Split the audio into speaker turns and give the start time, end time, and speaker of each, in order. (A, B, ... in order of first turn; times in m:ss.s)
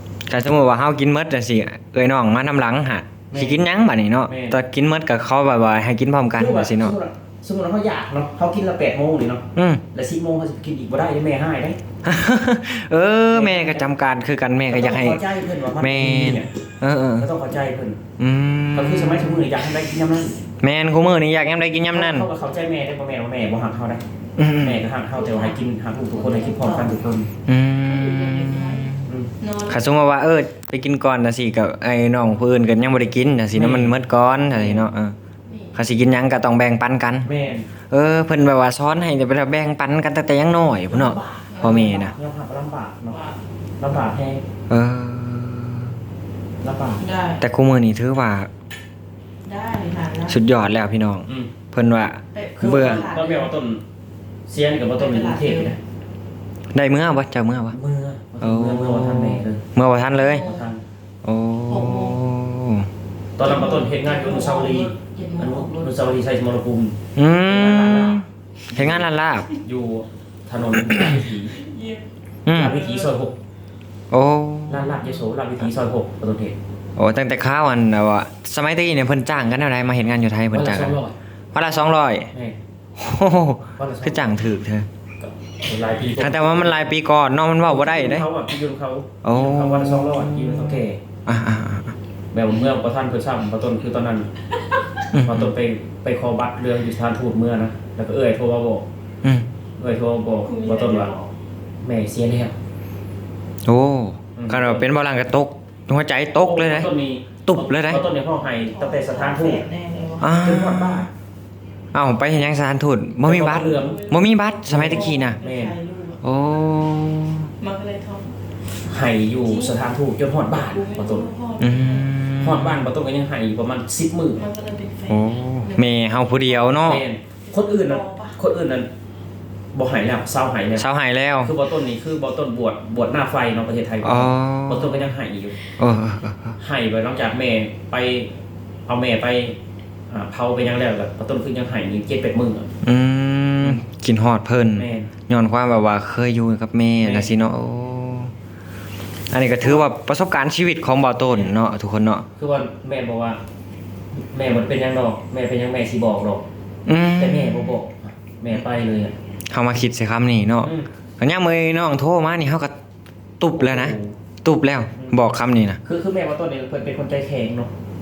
0:00.3-0:07.0 A
0:03.3-0:03.6 B
0:04.3-0:04.6 B
0:06.4-0:11.8 B
0:09.6-0:09.8 A
0:12.0-0:15.2 A
0:13.3-0:14.0 B
0:14.7-0:16.5 B
0:15.8-0:17.3 A
0:17.2-0:18.0 B
0:18.2-0:19.5 A
0:18.8-0:20.4 B
0:20.6-0:22.3 A
0:21.9-0:24.0 B
0:24.4-0:24.8 A
0:24.6-0:27.3 B
0:25.2-0:25.6 C
0:26.1-0:27.0 C
0:27.5-0:29.1 A
0:27.8-0:29.8 C
0:29.7-0:35.2 A
0:33.5-0:34.0 B
0:34.5-0:34.9 B
0:35.5-0:35.7 C
0:35.8-0:37.3 A
0:37.2-0:37.7 B
0:37.9-0:42.1 A
0:40.9-0:43.2 B
0:41.5-0:41.8 C
0:43.1-0:43.4 C
0:43.8-0:44.4 B
0:44.7-0:46.0 A
0:46.6-0:47.0 B
0:47.0-0:47.4 C
0:47.4-0:48.5 A
0:49.4-0:50.4 C
0:50.3-0:53.0 A
0:51.3-0:51.5 B
0:52.3-0:53.5 C
0:52.6-0:53.8 B
0:54.5-0:55.8 B
0:55.0-0:55.8 C
0:56.7-0:57.8 A
0:57.7-0:59.6 B
0:58.4-1:00.4 A
1:00.2-1:00.7 C
1:00.4-1:00.8 B
1:01.2-1:02.9 A
1:01.7-1:02.2 C
1:03.4-1:09.1 B
1:03.4-1:06.0 C
1:07.2-1:09.5 A
1:09.6-1:11.6 B
1:11.6-1:12.0 C
1:12.5-1:12.8 A
1:12.5-1:13.4 B
1:12.6-1:13.1 C
1:14.1-1:15.0 A
1:14.7-1:16.6 B
1:17.0-1:21.0 A
1:20.5-1:21.2 B
1:21.5-1:22.3 A
1:23.0-1:24.9 A
1:23.8-1:24.4 B
1:25.2-1:26.9 B
1:26.2-1:28.3 A
1:27.6-1:31.0 B
1:29.2-1:31.9 A
1:32.3-1:34.3 B
1:35.1-1:35.5 A
1:35.2-1:38.9 B
1:39.8-1:41.1 B
1:40.4-1:41.3 C
1:41.8-1:42.6 B
1:43.6-1:46.9 A
1:44.4-1:44.9 B
1:46.4-1:49.7 B
1:47.5-1:48.0 A
1:48.7-1:50.3 C
1:50.2-1:51.1 A
1:50.4-1:51.1 B
1:51.9-1:55.4 A
1:53.2-1:54.0 B
1:53.6-1:56.2 C
1:54.7-1:55.8 B
1:56.2-1:57.5 A
1:57.6-1:58.4 C
1:58.9-2:01.3 B
1:59.4-1:59.8 C
2:00.5-2:02.1 C
2:01.6-2:02.8 A
2:02.4-2:04.4 B
2:04.4-2:06.7 C
2:05.1-2:07.0 A
2:06.8-2:08.9 B
2:07.5-2:08.4 C
2:09.7-2:10.8 B
2:10.8-2:11.5 A
2:11.4-2:15.6 B
2:14.0-2:14.9 A
2:15.8-2:16.6 A
2:16.6-2:18.3 B
2:18.9-2:19.6 B
2:20.1-2:22.7 B
2:22.8-2:28.3 A
2:24.8-2:25.1 B
2:27.0-2:27.3 B
2:29.3-2:32.3 A
2:32.4-2:33.4 B
2:34.3-2:36.4 B
2:36.9-2:37.8 A
2:37.2-2:39.2 B
2:39.5-2:42.7 A
2:40.6-2:40.9 B
2:43.4-2:45.8 A
2:43.6-2:44.1 B
2:45.8-2:47.7 B